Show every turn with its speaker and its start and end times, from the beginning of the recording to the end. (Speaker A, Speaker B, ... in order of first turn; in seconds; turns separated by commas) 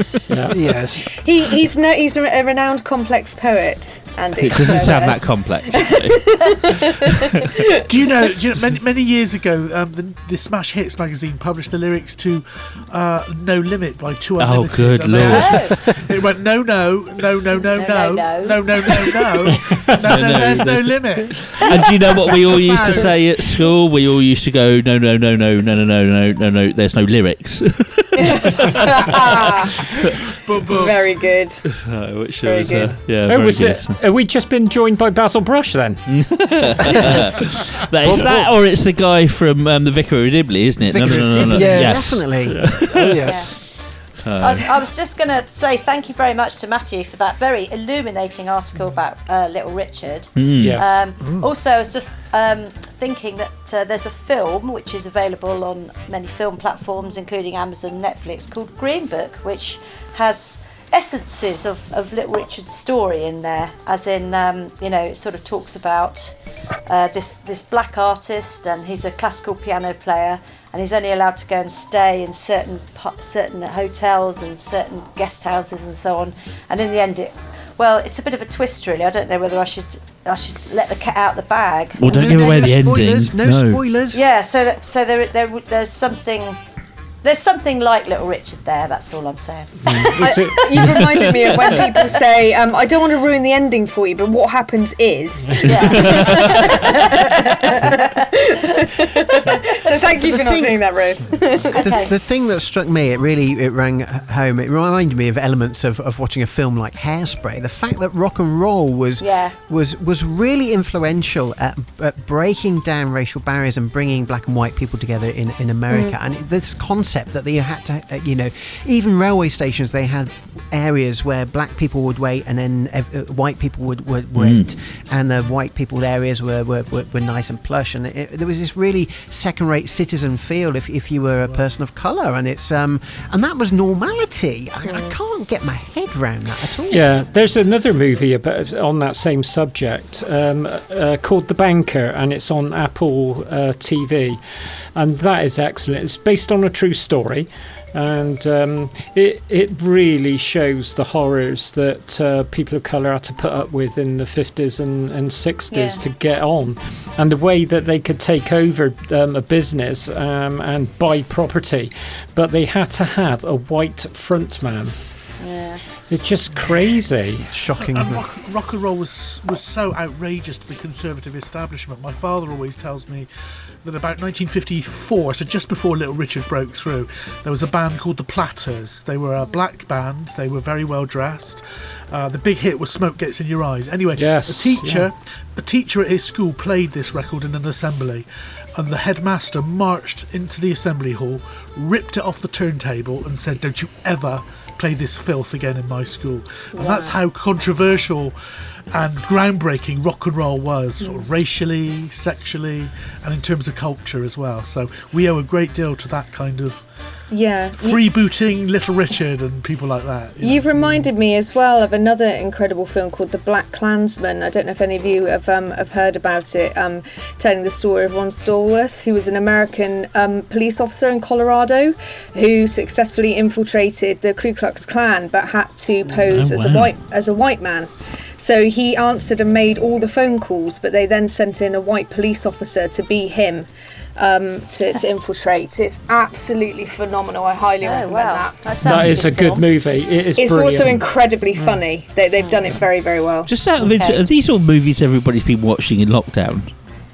Speaker A: 0.3-0.5, Speaker B: 0.5-1.0, Speaker C: 1.1-7.7, Speaker D: 4.4-6.8, Speaker B: 7.9-23.7, Speaker D: 14.4-16.0, Speaker E: 15.2-15.7, Speaker E: 17.6-19.4, Speaker A: 19.5-20.0, Speaker D: 20.1-29.9, Speaker C: 28.2-29.8, Speaker B: 30.2-31.1, Speaker C: 30.7-33.0, Speaker D: 31.7-34.0, Speaker A: 33.3-37.2, Speaker D: 36.1-43.4, Speaker A: 38.0-38.5, Speaker F: 40.9-43.6, Speaker B: 41.0-42.0, Speaker E: 43.2-43.5, Speaker D: 44.2-44.7, Speaker E: 44.4-66.3, Speaker D: 50.3-50.9, Speaker A: 50.6-50.9, Speaker B: 50.6-51.5, Speaker E: 66.9-82.7, Speaker D: 82.0-83.8, Speaker F: 82.0-84.2, Speaker E: 84.1-86.6, Speaker E: 87.2-90.2, Speaker A: 89.8-91.2, Speaker C: 90.2-101.8, Speaker E: 91.5-92.1, Speaker E: 95.6-98.9, Speaker F: 100.1-100.9, Speaker F: 101.7-137.2, Speaker E: 101.7-102.1, Speaker E: 109.2-109.5, Speaker D: 124.3-124.7, Speaker C: 134.9-135.1, Speaker A: 136.9-144.4, Speaker A: 144.9-165.0, Speaker E: 155.7-156.0, Speaker E: 165.4-165.8, Speaker A: 166.1-167.4, Speaker F: 167.5-168.2, Speaker B: 167.8-173.3, Speaker B: 173.8-198.3, Speaker A: 184.1-185.1, Speaker C: 196.8-197.1, Speaker B: 198.9-206.8, Speaker C: 207.3-208.0, Speaker B: 207.8-211.1, Speaker C: 210.4-239.2, Speaker D: 226.2-226.9, Speaker E: 237.8-239.7, Speaker A: 238.8-241.8, Speaker C: 240.4-243.5, Speaker E: 242.3-242.8, Speaker D: 243.4-246.8, Speaker E: 243.8-244.2